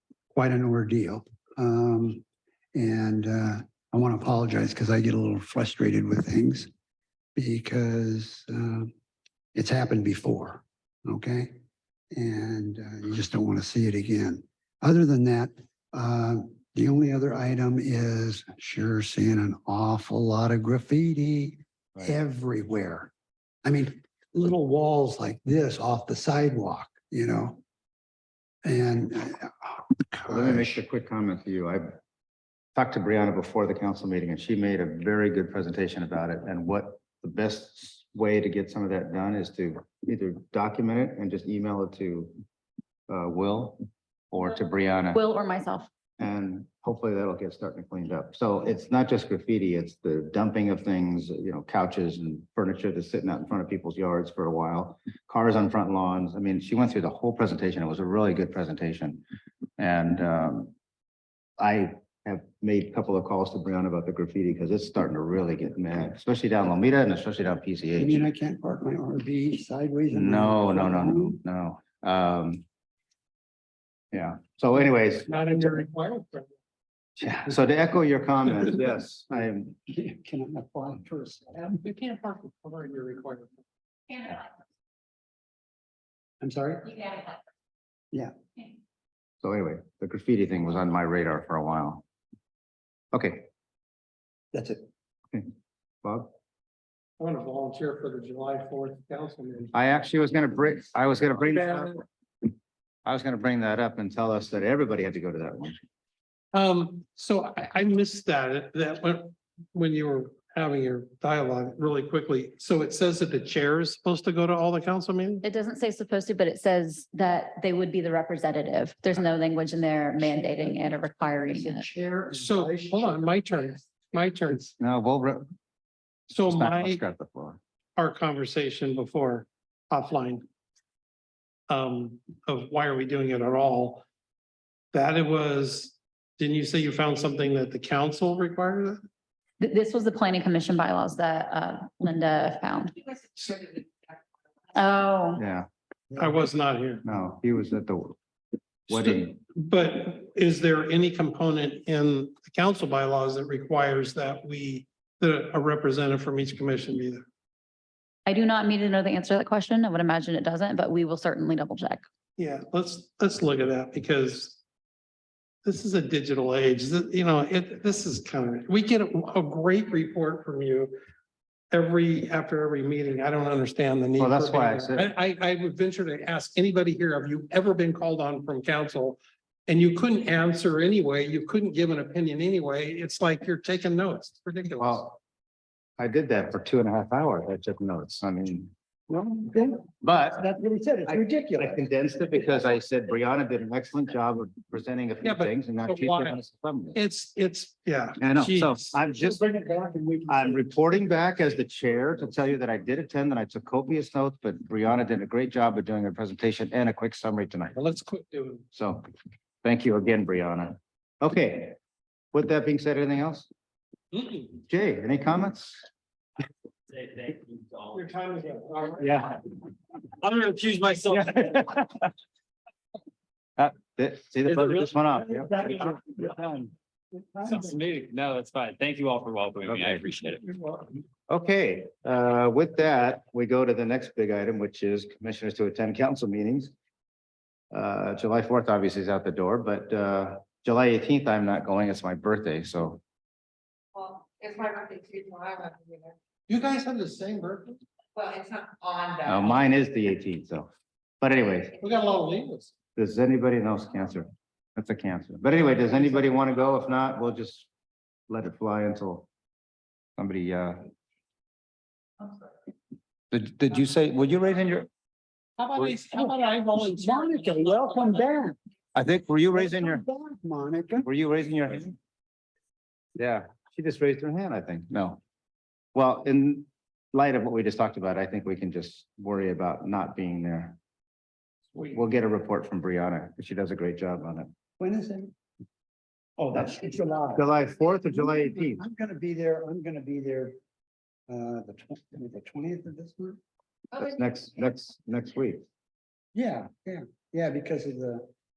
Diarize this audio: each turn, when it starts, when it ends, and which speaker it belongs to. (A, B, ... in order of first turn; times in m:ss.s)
0:00.3-0:02.2 A
0:02.7-0:06.7 A
0:07.4-0:08.9 A
0:09.6-0:11.6 A
0:12.1-0:23.1 A
0:23.6-0:27.6 A
0:28.6-0:30.8 A
0:30.3-0:31.9 B
0:32.8-0:42.3 B
0:43.1-0:45.2 B
0:45.1-0:45.9 C
0:46.2-0:59.2 B
0:59.8-1:00.7 B
1:01.6-1:08.3 B
1:08.0-1:11.4 A
1:10.1-1:12.6 B
1:14.1-1:15.3 B
1:15.3-1:16.5 D
1:17.2-1:19.8 B
1:19.9-1:21.6 A
1:21.6-1:23.6 D
1:26.4-1:27.4 A
1:29.4-1:32.0 B
1:33.1-1:33.5 B
1:34.5-1:34.8 A
1:36.0-1:36.3 B
1:37.2-1:39.7 D
1:39.7-1:42.0 B
1:43.0-1:45.8 B
1:46.5-1:55.4 D
1:55.4-2:01.9 C
2:00.2-2:03.4 A
2:02.3-2:04.7 D
2:04.8-2:05.4 B
2:06.3-2:07.0 D
2:06.4-2:07.6 B
2:08.0-2:10.4 D
2:11.7-2:14.0 D
2:14.9-2:19.0 D
2:19.6-2:23.0 C
2:24.8-2:25.4 C
2:25.4-2:25.7 B
2:26.2-2:27.1 D
2:27.0-2:28.2 B
2:28.9-2:29.4 B
2:28.9-2:37.3 D
2:38.3-2:42.0 C
2:42.4-2:44.6 D
2:45.6-2:51.0 D
2:51.7-3:05.0 D
2:54.2-2:55.1 B
3:04.8-3:05.2 B
3:06.0-3:08.7 B
3:09.1-3:11.8 A
3:09.8-3:10.4 B
3:11.1-3:17.0 B
3:15.2-3:16.3 D
3:17.0-3:18.9 D
3:18.2-3:19.4 B
3:19.1-3:20.7 A
3:20.3-3:27.8 B
3:27.7-3:28.6 D
3:28.7-3:29.1 B
3:29.6-3:31.8 B
3:32.3-3:33.5 B
3:34.1-3:34.4 D
3:34.7-3:35.9 B
3:36.9-3:38.0 E
3:37.9-3:39.1 D
3:39.0-3:39.4 B
3:40.2-3:41.2 E
3:41.1-3:42.0 B
3:43.6-3:46.7 B
3:45.3-3:46.0 A
3:47.3-3:47.7 A
3:47.4-3:50.5 E
3:51.3-3:56.7 B
3:57.7-4:03.0 B
4:04.0-4:06.1 F
4:06.5-4:07.8 D
4:08.3-4:09.4 F
4:09.2-4:11.8 B
4:11.8-4:12.7 D
4:13.0-4:17.7 B
4:18.3-4:19.3 B
4:20.2-4:20.8 B
4:23.3-4:24.9 B
4:25.6-4:27.6 D
4:26.1-4:28.6 A
4:29.0-4:30.0 B
4:29.5-4:31.1 A
4:31.0-4:32.0 B
4:33.2-4:35.2 B
4:36.0-4:40.8 B
4:41.8-4:44.5 B
4:44.8-4:45.3 A
4:46.4-4:47.5 A
4:47.3-4:48.8 B
4:48.1-4:50.6 A
4:51.3-4:53.4 A
4:54.0-4:55.6 B
4:56.4-4:58.3 A